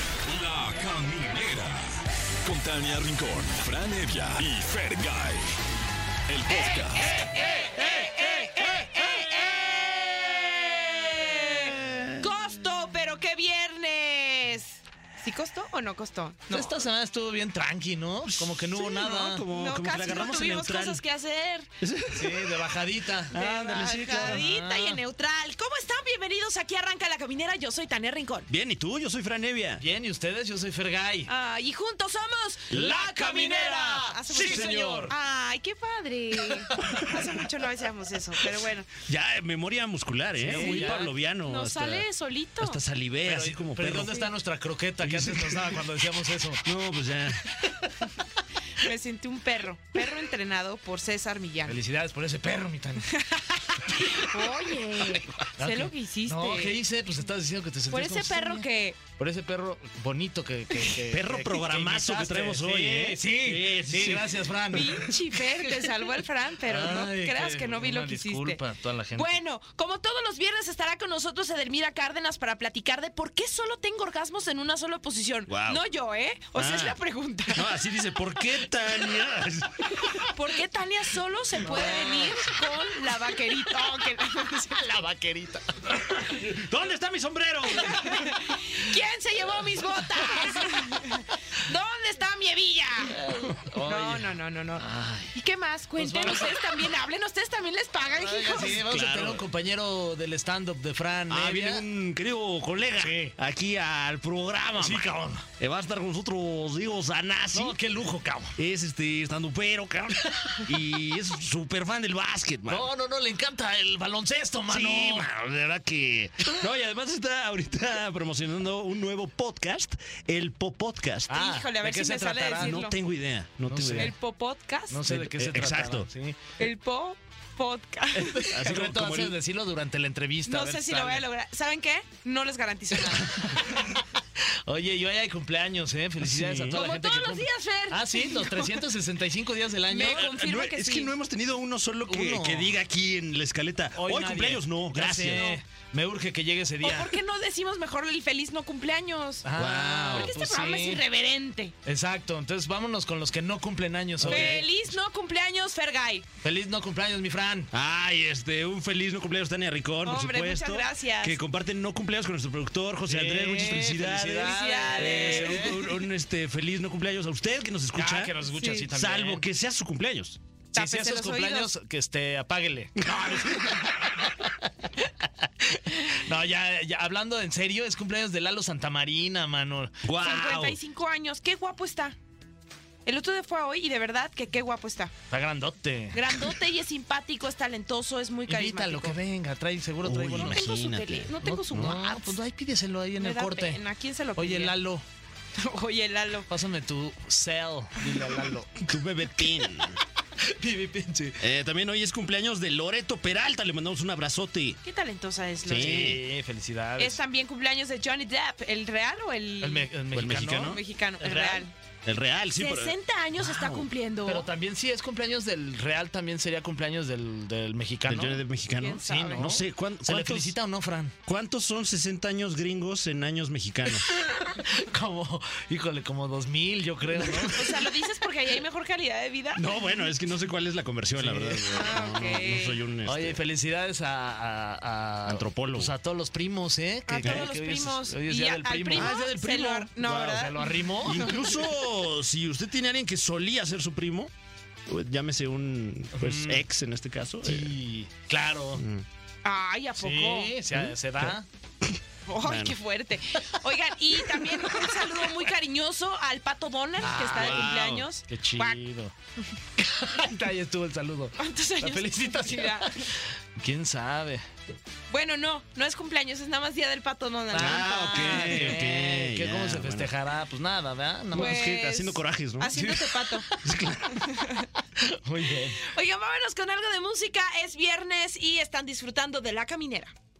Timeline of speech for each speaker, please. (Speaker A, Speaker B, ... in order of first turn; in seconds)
Speaker A: 0.2-5.4, 6.3-7.4
Speaker B: 6.5-16.7, 18.8-21.7, 23.3-28.5, 31.3-38.9, 40.4-42.8, 44.0-44.3, 48.8-51.8, 53.1-56.8, 57.9-59.0, 64.7-68.6, 69.2-77.8, 80.2-84.9, 87.8-93.2, 93.8-98.8, 121.3-122.9, 124.0-125.0, 126.6-128.6, 130.5-133.8, 136.7-138.8, 139.9-141.1, 145.2-145.6, 146.8-149.5, 150.1-151.7, 154.2-156.2, 160.0-161.4, 164.4-165.8, 168.5-168.9, 170.7-171.7, 180.2-182.2, 183.1-185.1, 186.1-189.2, 190.3-192.4, 193.2-194.8, 195.6-196.5, 204.8-206.1, 207.0-211.7, 212.6-214.5, 218.7-219.5, 227.2-229.7, 231.7-232.8, 237.1-241.3, 249.4-250.5, 252.3-258.8, 261.4-263.1, 265.1-269.0, 271.3-273.4, 274.1-274.7, 275.8-280.1
Speaker C: 11.6-12.2, 18.7-21.0, 21.8-22.6, 23.3-24.4, 28.5-29.8, 32.7-34.7, 36.8-37.1, 39.0-42.0, 42.6-44.1, 45.0-45.8, 46.6-47.6, 61.1-64.9, 75.5-75.8, 76.6-77.0, 77.5-80.2, 81.8-82.2, 86.0-88.2, 94.9-95.3, 98.5-99.4, 101.3-105.1, 105.6-107.8, 108.6-112.9, 114.7-121.4, 122.6-124.1, 125.0-126.1, 128.5-129.3, 136.2-136.8, 140.0-145.5, 149.6-150.3, 154.2-154.6, 157.7-168.3, 168.9-170.4, 173.0-173.8, 180.0-180.8, 190.0-191.3, 198.8-200.0, 201.4-204.8, 205.7-206.2, 210.1-210.8, 212.1-213.9, 218.1-220.5, 221.2-224.2, 229.6-233.4, 235.2-235.9, 238.9-240.3, 241.0-244.3, 244.9-247.8, 248.8-249.1, 250.7-251.4, 251.9-252.8, 257.0-258.0, 267.5-270.1, 271.3-272.8, 273.6-274.3
Speaker D: 16.5-19.5, 22.1-25.0, 29.8-31.3, 32.7-35.2, 40.4-41.1, 43.2-46.7, 51.7-53.1, 54.0-54.3, 55.4-58.7, 59.2-66.1, 66.6-69.4, 81.8-82.3, 84.8-85.6, 93.2-94.3, 96.0-96.6, 98.1-101.8, 103.0-103.3, 104.8-105.5, 107.5-108.6, 112.7-115.3, 121.3-122.8, 123.7-124.2, 124.9-126.4, 128.1-131.2, 133.2-140.3, 142.1-142.8, 143.9-147.2, 149.4-151.0, 151.8-154.7, 156.4-157.7, 163.1-165.9, 167.9-169.4, 170.7-174.2, 175.6-180.6, 185.3-186.5, 188.5-190.7, 191.4-193.8, 194.3-195.1, 196.5-199.0, 200.4-201.4, 205.7-207.2, 209.6-211.7, 214.2-218.4, 219.2-221.1, 224.2-227.9, 231.2-231.7, 233.0-239.2, 240.0-241.6, 246.2-246.7, 247.4-248.8, 249.9-251.4, 257.0-259.1, 259.8-264.4, 267.5-271.7, 272.7-273.6, 275.0-275.8